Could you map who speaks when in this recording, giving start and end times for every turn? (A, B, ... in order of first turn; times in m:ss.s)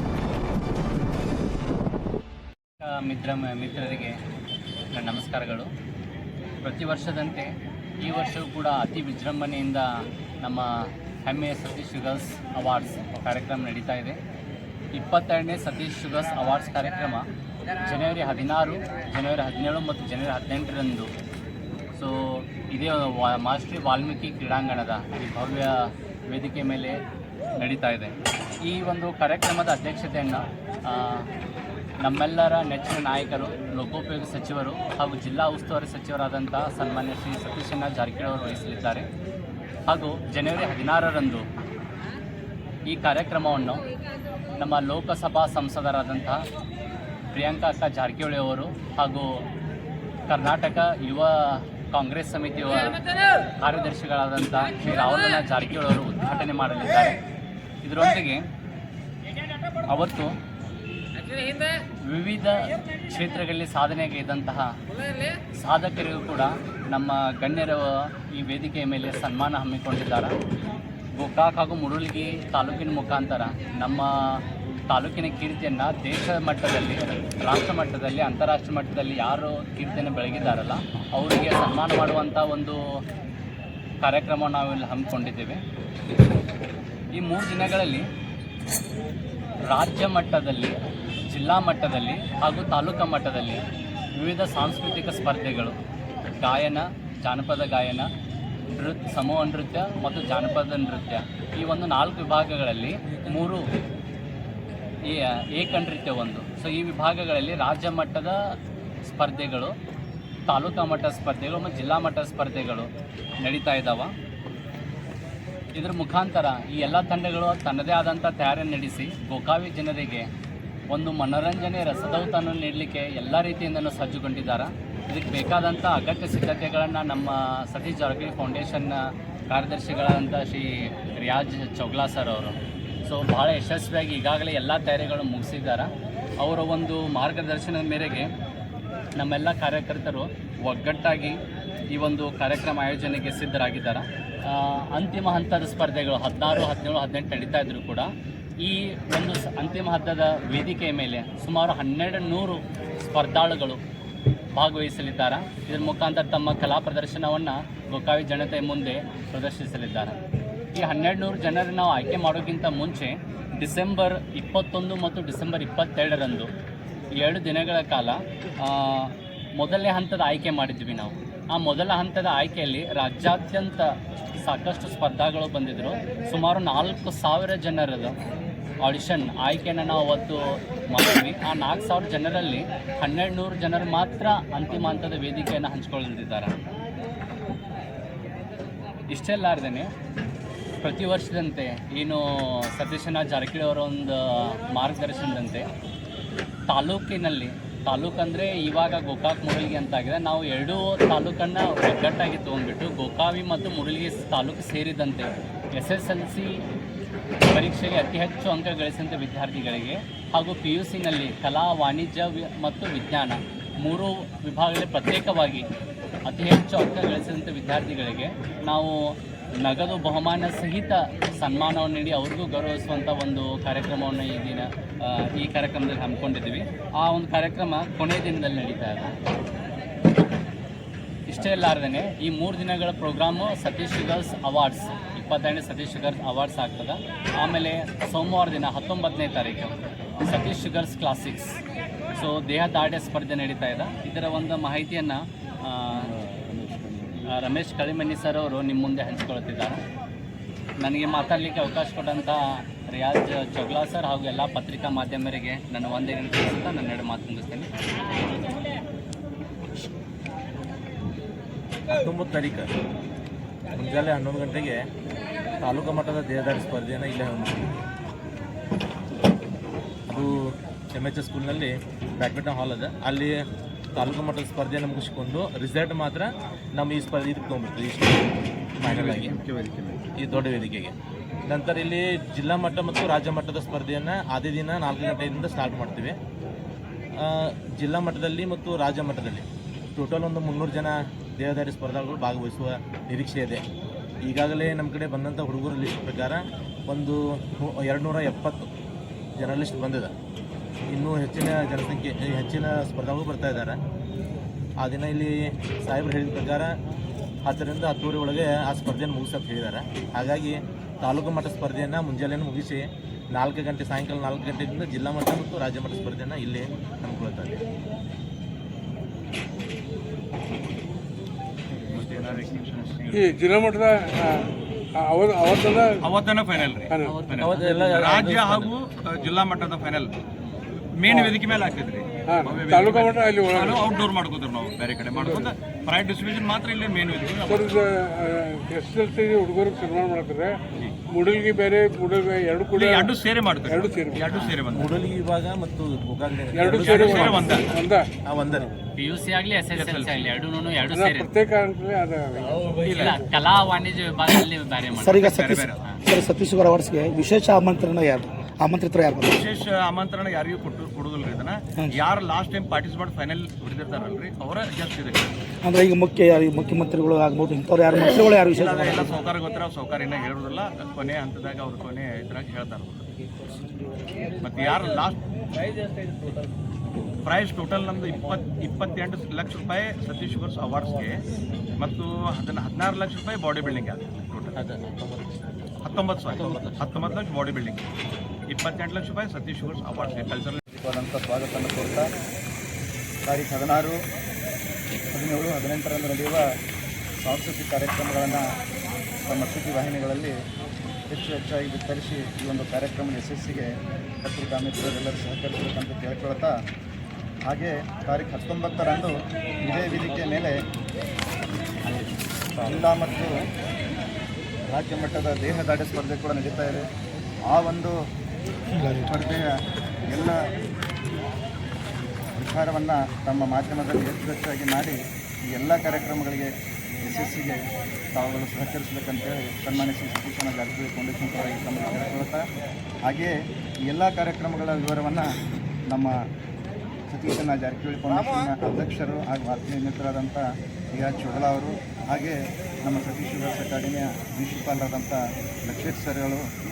0:02.8-0:04.2 A
0:04.9-0:05.7 A
0:06.6-0:09.9 A
0:10.4-0:14.2 A
0:14.9-0:17.3 A
0:17.8-0:21.1 A
0:21.9-0:27.0 A
0:27.6-0:31.3 A
0:32.0-0:39.1 A
0:39.9-0:41.5 A
0:42.9-0:43.8 A
0:44.6-0:46.4 A
0:47.3-0:49.4 A
0:50.3-0:53.0 A
0:53.6-0:57.2 A
0:57.8-0:58.4 A
0:59.9-1:00.3 A
1:02.0-1:04.8 A
1:05.6-1:10.3 A
1:11.2-1:22.8 A
1:24.0-1:25.6 A
1:27.1-1:28.1 A
1:29.6-1:30.8 A
1:31.3-1:33.6 A
1:34.2-1:35.8 A
1:36.4-1:38.1 A
1:38.8-1:43.7 A
1:45.0-1:49.8 A
1:50.5-1:54.1 A
1:55.8-2:00.3 A
2:00.9-2:18.3 A
2:19.2-2:21.4 A
2:21.9-2:33.8 A
2:34.5-2:40.2 A
2:40.7-2:46.5 A
2:47.1-2:58.2 A
2:58.8-3:06.6 A
3:09.1-3:09.9 A
3:10.8-3:15.7 A
3:16.7-3:26.6 A
3:27.5-3:35.7 A
3:36.3-3:39.0 A
3:39.6-3:49.2 A
3:51.3-4:01.6 A
4:02.1-4:06.1 A
4:07.2-4:09.8 A
4:10.8-4:17.7 A
4:21.9-4:22.7 B
4:23.7-4:24.8 B
4:25.6-4:27.8 B
4:30.1-4:33.4 B
4:34.0-4:39.4 B
4:38.8-4:40.0 C
4:40.2-4:41.0 B
4:41.5-4:46.2 B
4:47.2-4:53.6 B
4:54.3-4:58.7 B
4:59.4-5:00.2 B
5:00.9-5:03.8 B
5:04.8-5:06.7 B
5:07.4-5:17.6 B
5:21.8-5:23.4 C
5:23.1-5:26.0 D
5:26.0-5:30.1 C
5:26.9-5:27.3 D
5:27.4-5:28.7 B
5:31.0-5:37.8 C
5:31.1-5:31.3 D
5:32.3-5:33.8 D
5:37.5-5:40.6 D
5:41.1-5:43.2 D
5:42.7-5:45.0 C
5:43.7-5:44.3 D
5:44.7-5:47.7 B
5:46.5-5:48.1 D
5:46.7-5:47.7 C
5:48.3-5:48.7 B
5:49.0-5:51.3 A
5:49.8-5:50.4 C
5:50.9-5:53.3 D
5:52.9-5:55.3 A
5:55.0-5:59.3 E
5:55.2-5:55.9 C
5:59.3-6:05.3 C
6:05.6-6:09.1 E
6:08.4-6:13.1 C
6:14.4-6:15.2 C
6:17.2-6:21.2 C
6:21.8-6:24.6 C
6:24.6-6:25.2 B
6:25.8-6:27.8 C
6:26.3-6:27.2 B
6:28.5-6:30.6 C
6:30.7-6:32.1 F
6:33.3-6:34.0 F
6:35.1-6:36.4 F
6:37.2-6:38.5 F
6:39.2-6:40.3 F
6:41.1-6:43.7 F
6:44.2-6:46.5 F
6:47.5-6:50.5 F
6:52.6-6:53.3 F
6:54.7-6:56.8 F
6:57.5-6:58.0 F
6:59.0-6:59.5 F
7:00.1-7:00.4 F
7:02.4-7:05.0 F
7:05.5-7:07.6 F
7:08.1-7:12.4 F
7:13.1-7:13.3 F
7:13.9-7:15.4 F
7:17.1-7:26.4 F